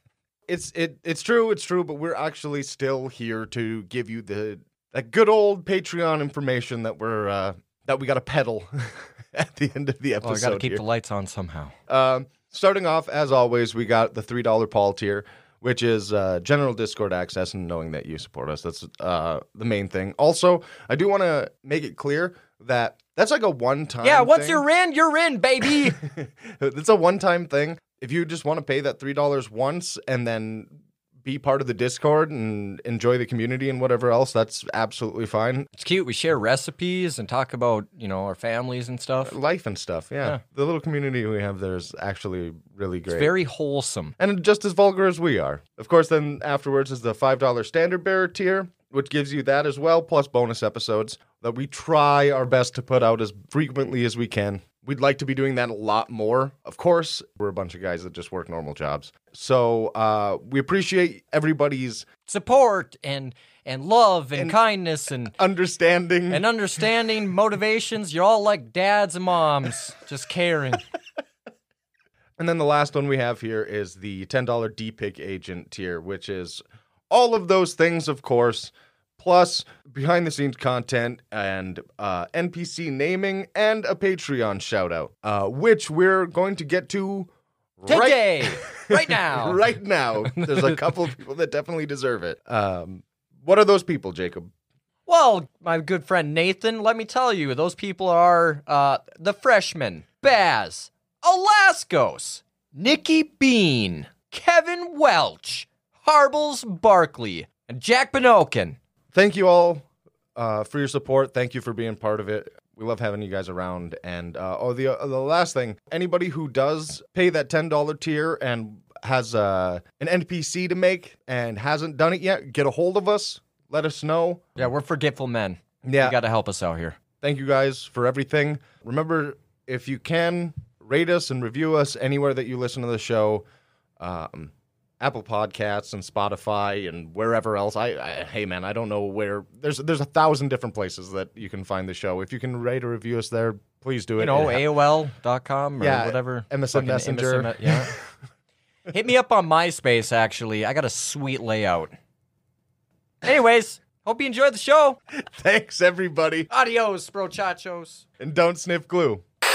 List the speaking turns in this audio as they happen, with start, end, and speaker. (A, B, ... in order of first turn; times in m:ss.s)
0:00.5-0:10.8 A
0:10.2-0:11.7 B
0:11.9-0:24.6 A
0:24.0-0:26.0 B
0:25.9-0:35.7 A
0:35.8-0:39.4 B
0:39.2-0:43.3 A
0:43.1-0:44.1 B
0:44.2-1:02.0 A
1:02.3-1:05.4 B
1:05.4-1:06.5 A
1:06.3-1:10.8 B
1:12.4-1:34.5 A
1:27.9-1:29.6 B
1:35.1-1:48.8 B
1:49.1-2:04.6 A
2:04.6-2:07.0 B
2:05.8-2:06.2 A
2:07.2-2:13.4 A
2:14.0-2:24.7 A
2:24.2-2:27.9 B
2:25.8-2:27.9 A
2:28.9-2:31.9 B
2:33.2-2:35.0 B
2:35.2-2:36.5 A
2:36.5-2:38.0 B
2:38.2-2:39.2 A